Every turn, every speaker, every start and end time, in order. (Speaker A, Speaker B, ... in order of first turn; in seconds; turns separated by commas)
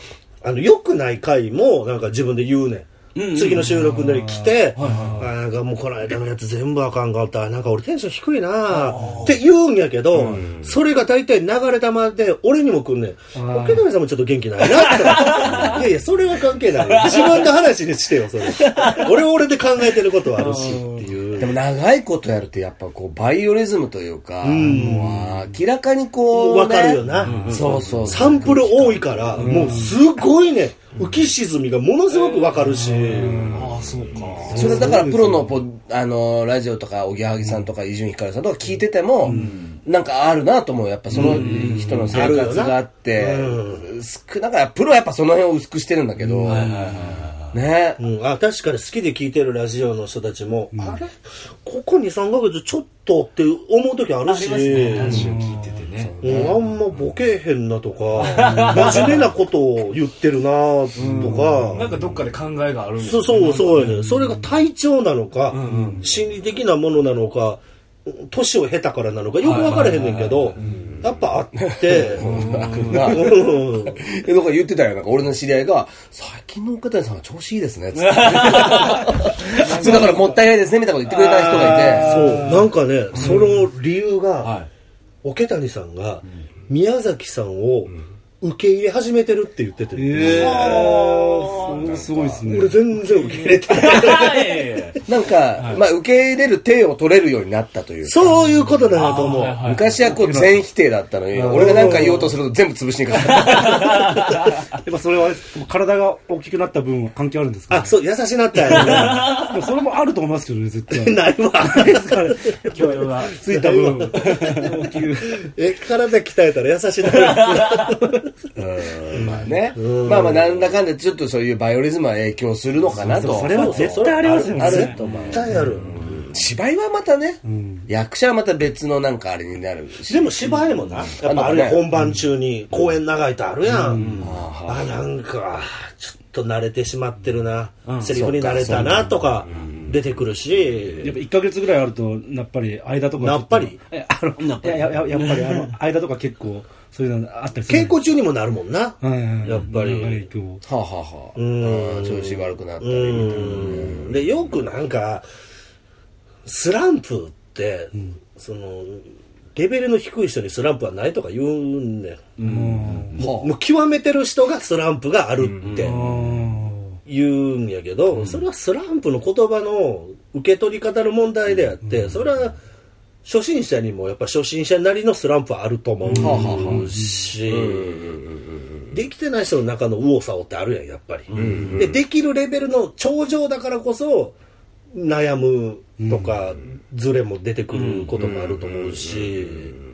Speaker A: 0.4-21.6, Speaker B: 3.1-4.1, Speaker C: 4.1-5.3, Speaker B: 4.8-5.2, Speaker B: 8.7-9.4, Speaker D: 10.1-10.7, Speaker C: 13.3-13.8, Speaker B: 14.7-15.9, Speaker D: 15.5-15.9, Speaker B: 16.7-17.6, Speaker B: 18.4-19.2, Speaker B: 19.9-21.0, Speaker D: 21.4-29.7, Speaker A: 24.4-25.3, Speaker C: 24.7-25.2, Speaker A: 26.3-33.6, Speaker B: 27.1-28.4, Speaker C: 29.4-30.0, Speaker B: 32.1-32.6, Speaker C: 32.7-33.8, Speaker B: 33.5-34.8, Speaker D: 34.5-46.8, Speaker A: 34.5-34.8, Speaker C: 34.5-35.6, Speaker C: 39.2-39.5, Speaker B: 39.3-39.8, Speaker B: 41.1-42.5, Speaker A: 41.1-41.4, Speaker C: 41.3-42.1, Speaker A: 42.1-43.9, Speaker C: 46.2-47.2, Speaker B: 46.5-47.6, Speaker D: 47.5-48.0, Speaker A: 48.0-51.1, Speaker C: 50.7-51.0, Speaker A: 51.6-55.3, Speaker B: 54.2-56.2, Speaker C: 54.9-55.8, Speaker D: 56.0-56.6, Speaker A: 56.2-62.0, Speaker B: 58.1-59.3, Speaker C: 58.3-59.1, Speaker C: 61.0-62.0, Speaker B: 61.0-64.4, Speaker A: 63.0-74.0, Speaker B: 65.5-66.2, Speaker C: 65.7-66.1, Speaker B: 69.4-70.9, Speaker D: 71.6-82.4, Speaker B: 72.1-73.4, Speaker B: 78.0-80.5, Speaker B: 81.1-82.1, Speaker C: 81.5-82.6, Speaker A: 81.6-84.5, Speaker C: 83.2-83.5, Speaker B: 83.2-83.5, Speaker B: 84.4-84.7, Speaker A: 85.2-91.6, Speaker C: 90.0-92.8, Speaker B: 90.2-92.3, Speaker D: 91.8-92.3, Speaker A: 92.4-94.8, Speaker B: 92.9-95.0, Speaker D: 95.1-98.3, Speaker B: 95.6-95.8, Speaker A: 98.0-99.6, Speaker B: 98.9-99.9, Speaker D: 99.6-104.1, Speaker C: 99.9-100.6, Speaker C: 101.3-102.3, Speaker B: 103.3-104.6, Speaker C: 104.8-107.9, Speaker A: 107.7-109.4, Speaker C: 108.7-115.5, Speaker B: 108.8-109.5, Speaker A: 110.9-112.7, Speaker B: 112.7-113.3, Speaker A: 113.4-114.8, Speaker B: 114.2-114.7, Speaker A: 115.3-118.2, Speaker B: 117.3-117.9, Speaker D: 118.6-130.4, Speaker A: 119.1-120.7, Speaker C: 123.0-125.0, Speaker A: 123.2-126.0, Speaker B: 125.0-125.4, Speaker C: 127.4-127.9, Speaker A: 130.1-141.2, Speaker B: 130.4-131.1, Speaker D: 131.2-131.9, Speaker C: 132.0-132.2, Speaker C: 133.7-134.2, Speaker B: 133.8-134.4, Speaker D: 134.2-134.9, Speaker B: 137.9-138.9, Speaker D: 138.1-140.0, Speaker C: 141.0-148.0, Speaker A: 143.2-143.8, Speaker B: 144.4-145.7, Speaker A: 147.7-150.3, Speaker C: 149.0-150.6, Speaker D: 150.6-154.2, Speaker A: 151.4-155.3, Speaker A: 156.4-162.2, Speaker B: 162.4-163.4, Speaker C: 162.4-163.2, Speaker D: 163.2-163.5, Speaker A: 163.2-166.0, Speaker B: 165.6-166.2, Speaker C: 165.8-167.0, Speaker A: 167.1-172.6, Speaker B: 168.1-168.4, Speaker A: 173.2-178.2, Speaker C: 176.1-177.1, Speaker D: 176.2-176.9, Speaker D: 177.4-179.0, Speaker A: 178.9-184.4, Speaker B: 181.3-181.8, Speaker D: 181.3-182.0, Speaker A: 184.9-189.8, Speaker C: 186.0-186.3, Speaker B: 187.7-188.2, Speaker D: 188.2-189.4